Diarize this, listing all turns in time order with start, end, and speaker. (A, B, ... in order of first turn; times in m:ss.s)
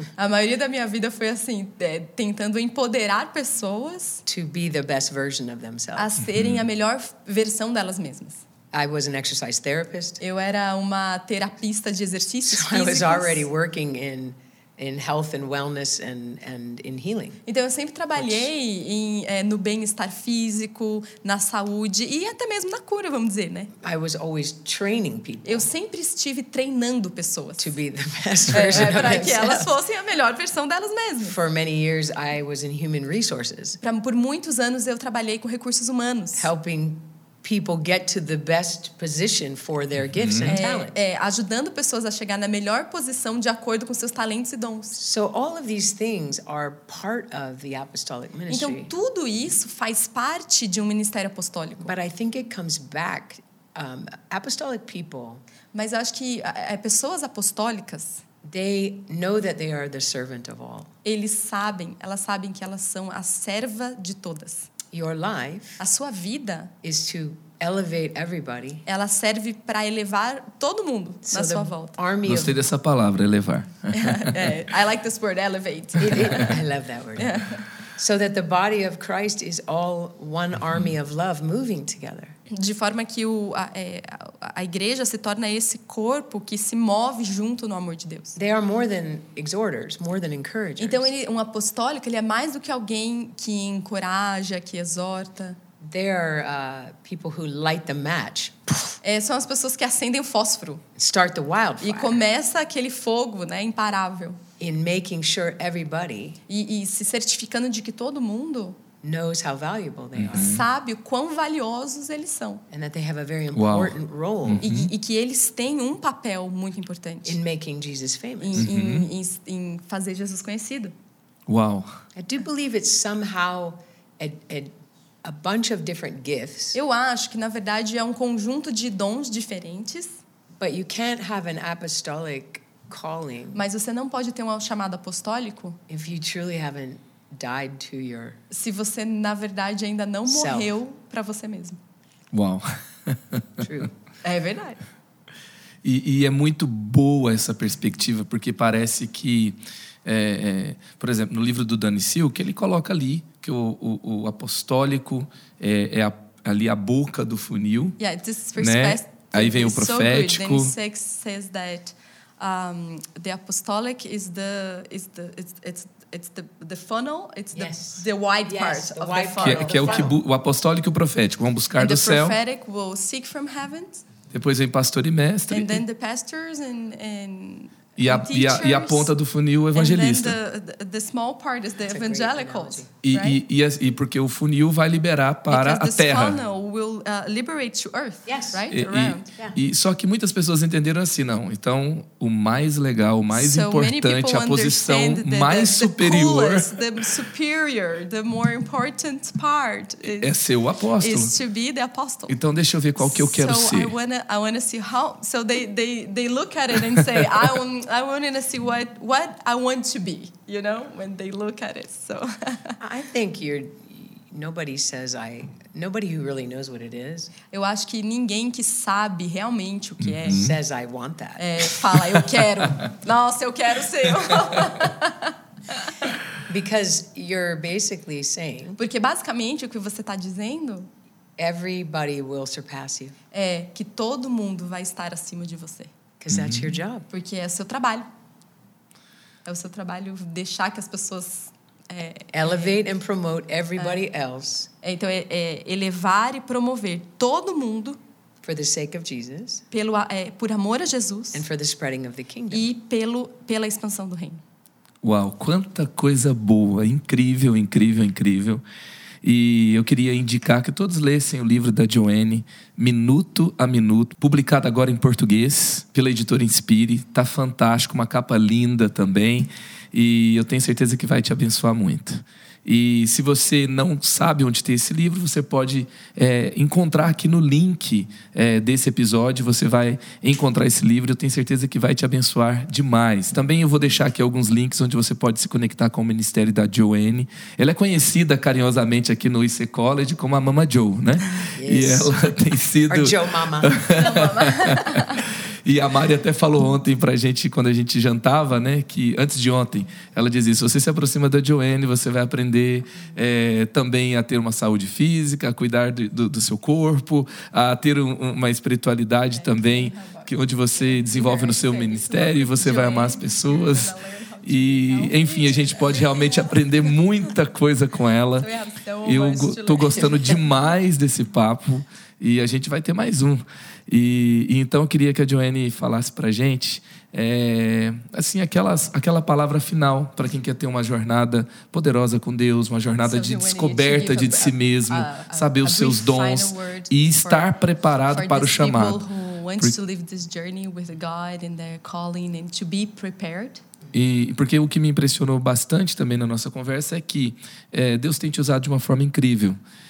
0:00.2-0:04.2 A
0:04.3-0:06.1 B
0:06.0-0:08.4 A
0:06.3-0:06.6 C
0:08.7-0:10.2 B
0:10.2-0:13.5 A
0:12.4-0:17.4 B
0:17.5-0:23.7 A
0:18.2-0:18.5 B
0:23.8-0:25.7 B
0:25.4-0:27.8 A
0:27.6-0:29.7 B
0:28.5-0:31.4 A
0:31.2-0:33.8 B
0:33.8-0:36.5 A
0:36.4-0:41.0 B
0:40.2-0:40.6 C
0:40.5-0:45.0 A
0:45.0-0:48.9 B
0:48.5-0:52.0 A
0:51.8-0:55.4 B
0:55.7-0:58.2 A
0:58.4-1:00.9 B
1:01.0-1:04.7 A
1:04.9-1:05.8 B
1:05.8-1:06.7 A
1:06.8-1:08.8 B
1:08.9-1:12.0 A
1:11.3-1:12.6 B
1:12.2-1:14.6 C
1:13.9-1:16.6 A
1:16.0-1:17.4 B
1:17.2-1:17.6 A
1:18.0-1:22.4 B
1:22.5-1:28.4 A
1:28.4-1:31.1 B
1:30.8-1:35.6 A
1:35.8-1:39.0 B
1:39.0-1:40.8 A
1:41.0-1:42.2 B
1:41.8-1:44.4 A
1:44.6-1:46.4 B
1:46.5-1:48.8 A
1:49.0-1:50.6 B
1:50.2-1:50.7 C
1:50.3-1:52.6 A
1:52.7-1:54.7 B
1:53.5-1:54.9 C
1:54.6-1:57.4 A
1:57.3-1:58.7 B
1:58.4-2:00.9 A
1:58.6-1:59.1 C
2:01.5-2:01.9 C
2:02.2-2:04.7 B
2:05.2-2:06.8 B
2:06.7-2:10.2 A
2:10.6-2:13.6 B
2:13.6-2:15.8 A
2:15.9-2:18.4 B
2:18.5-2:21.8 A
2:20.3-2:20.8 B
2:22.3-2:23.7 C
2:23.6-2:23.9 B
2:24.2-2:24.8 A
2:25.8-2:38.0 C
2:38.0-2:50.1 A
2:38.6-2:40.7 C
2:47.5-2:50.1 B
2:49.4-2:52.4 C
2:51.8-2:54.0 A
2:54.3-2:55.8 C
2:55.5-2:59.1 A
2:58.0-3:00.4 C
2:59.7-3:03.4 A
3:01.9-3:02.9 B
3:03.0-3:06.4 C
3:05.5-3:09.3 A
3:08.3-3:08.6 B
3:08.7-3:16.8 C
3:13.3-3:20.4 A
3:20.0-3:21.3 C
3:21.0-3:22.4 A
3:22.3-3:23.9 C
3:23.0-3:32.8 A
3:26.9-3:27.6 C
3:32.8-3:37.3 B
3:37.5-3:40.4 A
3:40.0-3:40.6 C
3:40.3-3:41.7 B
3:41.4-3:45.9 A
3:46.5-3:48.8 B
3:48.8-3:50.9 A
3:51.4-3:53.2 B
3:53.3-3:55.9 A
3:56.2-3:57.1 B
3:56.3-3:56.8 C
3:57.1-3:58.1 A
3:59.4-4:02.8 A
4:02.3-4:04.7 B
4:03.8-4:04.0 A
4:04.8-4:08.0 A
4:08.4-4:09.6 B
4:09.7-4:11.4 A
4:11.3-4:12.7 B
4:12.5-4:14.4 A
4:15.0-4:18.6 C
4:19.2-5:18.5 C
4:51.4-4:52.2 B
4:52.9-4:54.0 B
4:53.9-4:55.2 A
5:09.4-5:16.8 A
5:18.4-5:20.7 A
5:19.0-5:39.0 C
5:33.0-5:43.6 A
5:43.9-5:49.6 C